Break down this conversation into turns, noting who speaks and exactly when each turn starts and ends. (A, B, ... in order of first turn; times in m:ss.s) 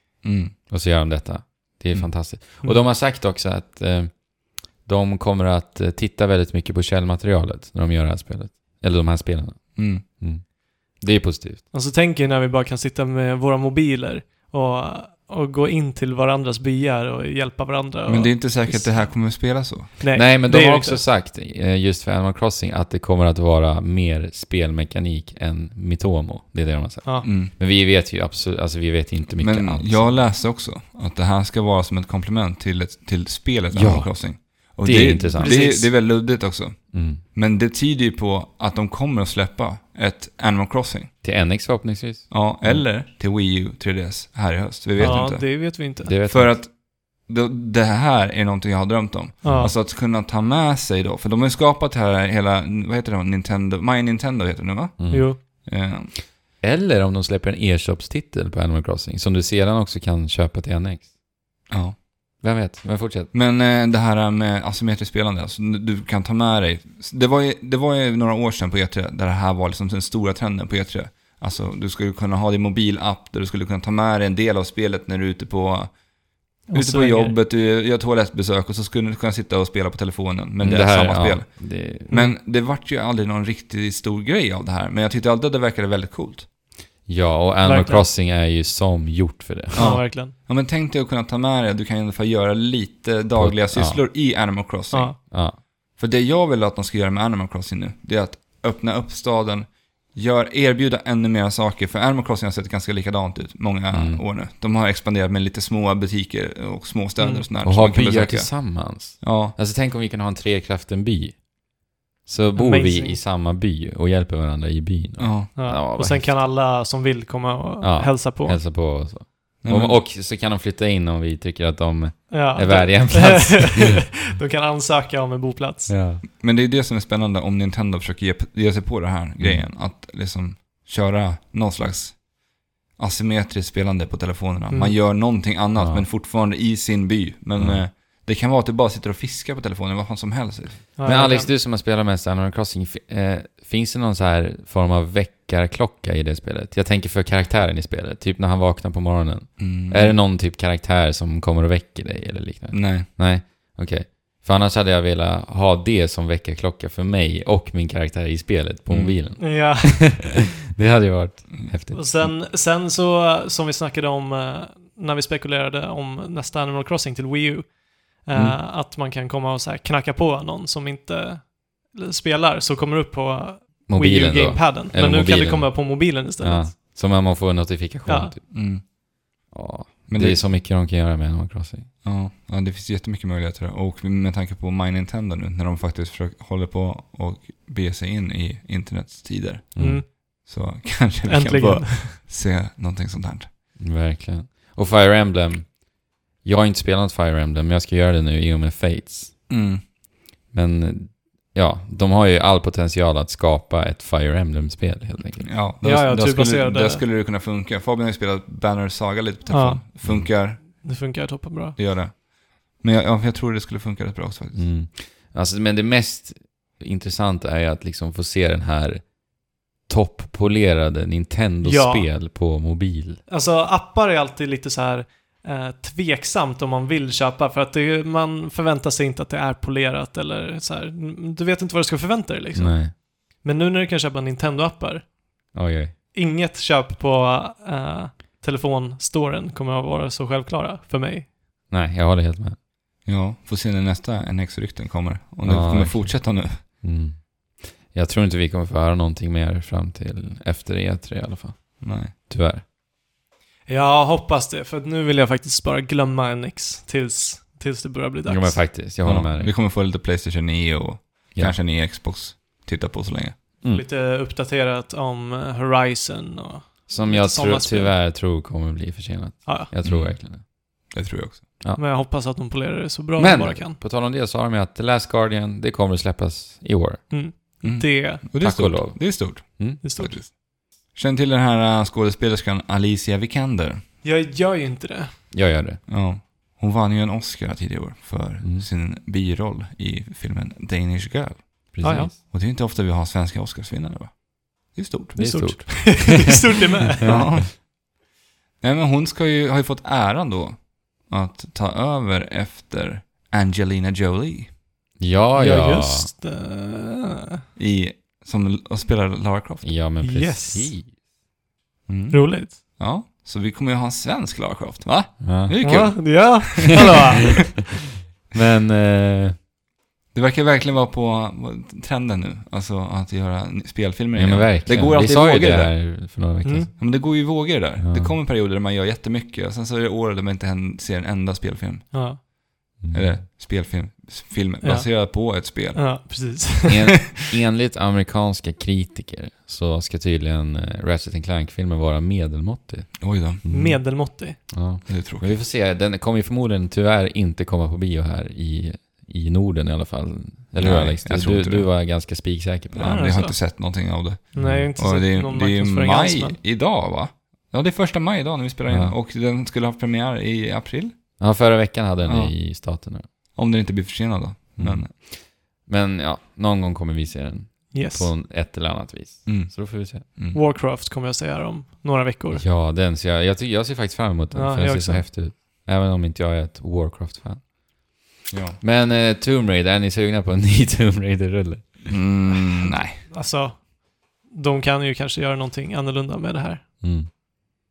0:00.2-0:00.5 A
0:00.7-0:11.6 B
0:09.8-0:10.0 A
0:11.7-0:19.4 C
0:18.1-0:20.0 A
0:20.0-0:21.0 C
0:20.1-0:30.2 B
0:27.2-0:27.5 A
0:29.4-0:41.1 A
0:33.7-0:35.6 B
0:35.4-0:35.9 C
0:36.9-0:37.2 B
0:41.2-0:42.9 B
0:42.3-0:56.1 A
0:45.0-0:45.4 B
0:45.0-0:46.2 C
0:46.0-0:46.6 B
0:49.4-0:49.7 B
0:49.4-0:49.8 C
0:55.0-0:55.4 B
0:55.1-0:55.4 C
0:56.6-1:01.1 B
1:01.7-1:02.0 A
1:02.4-1:03.3 B
1:03.3-1:16.0 A
1:16.6-1:26.5 A
1:16.7-1:17.4 C
1:20.6-1:22.1 B
1:22.1-1:22.4 C
1:27.1-1:30.0 B
1:27.6-1:28.1 C
1:29.8-1:35.4 A
1:29.8-1:30.3 C
1:33.4-1:34.0 B
1:34.9-1:35.2 C
1:35.3-1:35.6 B
1:36.0-1:49.6 A
1:43.9-1:44.2 B
1:47.2-1:47.5 C
1:47.6-1:51.5 B
1:52.2-1:56.4 B
1:52.6-1:53.2 C
1:55.2-1:55.5 A
1:55.6-1:58.6 C
1:57.8-2:04.0 B
1:59.6-2:00.0 A
2:02.3-2:06.0 C
2:05.9-2:06.2 B
2:06.4-2:12.3 A
2:09.4-2:09.7 B
2:13.0-2:20.9 A
2:14.7-2:15.0 C
2:15.8-2:16.0 B
2:17.6-2:17.8 B
2:21.0-2:21.5 C
2:21.0-2:42.4 B
2:29.6-2:30.2 A
2:32.7-2:33.1 A
2:38.9-2:39.2 A
2:39.4-2:40.3 C
2:41.9-2:56.7 C
2:48.3-2:48.6 B
2:53.9-2:58.5 B
2:58.1-2:58.3 C
2:58.5-2:58.8 A
2:59.5-3:01.9 B
3:00.1-3:00.4 A
3:02.0-3:13.5 A
3:09.8-3:10.0 B
3:09.8-3:10.1 C
3:11.3-3:12.2 C
3:13.8-3:15.8 B
3:16.4-3:19.5 B
3:19.5-3:19.8 A
3:20.5-3:25.6 B
3:25.4-3:30.8 A
3:25.8-3:27.0 C
3:29.5-3:29.8 C
3:30.0-3:30.3 B
3:30.6-3:31.8 C
3:31.8-3:34.7 A
3:34.5-3:39.2 B
3:39.9-3:43.2 B
3:41.6-3:42.1 C
3:43.3-3:55.1 C
3:52.6-3:52.9 B
3:55.5-3:55.9 B
3:56.1-4:01.3 C
4:01.7-4:02.6 B
4:03.0-4:06.6 A
4:05.4-4:12.6 B
4:11.8-4:12.1 A
4:13.7-4:18.7 C
4:18.3-4:19.5 B
4:19.0-4:23.4 A
4:23.6-4:27.9 C
4:26.9-4:30.4 B
4:29.8-4:30.2 A
4:30.9-4:31.5 A
4:31.8-4:33.8 C
4:33.2-4:37.2 B
4:37.1-4:38.2 C
4:37.6-4:43.8 A
4:38.4-4:39.8 B
4:39.8-4:40.2 C
4:44.0-4:45.2 C
4:45.3-4:45.8 B
4:45.9-4:55.6 A
4:51.7-4:52.2 B
4:51.8-4:52.1 C
4:55.2-4:56.2 B
4:55.2-4:57.3 C
4:57.0-4:57.6 A
4:58.6-5:04.5 A
5:05.0-5:06.1 B
5:05.4-5:07.4 C
5:07.6-5:09.8 A
5:09.6-5:10.9 B
5:10.0-5:10.7 C
5:11.9-5:17.2 A
5:12.1-5:12.6 C
5:15.2-5:16.0 B
5:15.6-5:17.5 C
5:18.3-5:19.4 B
5:20.1-5:25.8 A
5:24.1-5:26.9 B
5:26.4-5:26.7 C
5:26.8-5:32.3 A
5:27.8-5:28.2 B
5:31.9-5:32.2 C
5:32.8-5:33.2 B
5:32.9-5:35.9 A
5:34.6-5:37.0 C
5:36.7-5:53.0 B
5:43.0-5:43.4 A
5:43.5-5:44.5 C
5:44.9-5:45.4 A
5:50.6-5:51.7 A
5:52.7-6:01.0 A
5:52.8-5:53.4 C
5:54.3-5:56.4 C
5:54.4-5:54.7 B
5:58.7-5:59.0 B
6:01.2-6:03.0 B
6:02.0-6:02.3 A
6:03.4-6:04.9 A
6:04.6-6:10.1 B
6:07.7-6:08.1 C
6:09.3-6:10.4 A
6:10.3-6:12.4 C
6:12.3-6:17.4 B
6:14.3-6:15.0 C
6:18.3-6:18.6 A
6:18.6-6:22.1 B
6:21.9-6:23.0 A
6:23.1-6:26.6 C
6:26.8-6:27.1 B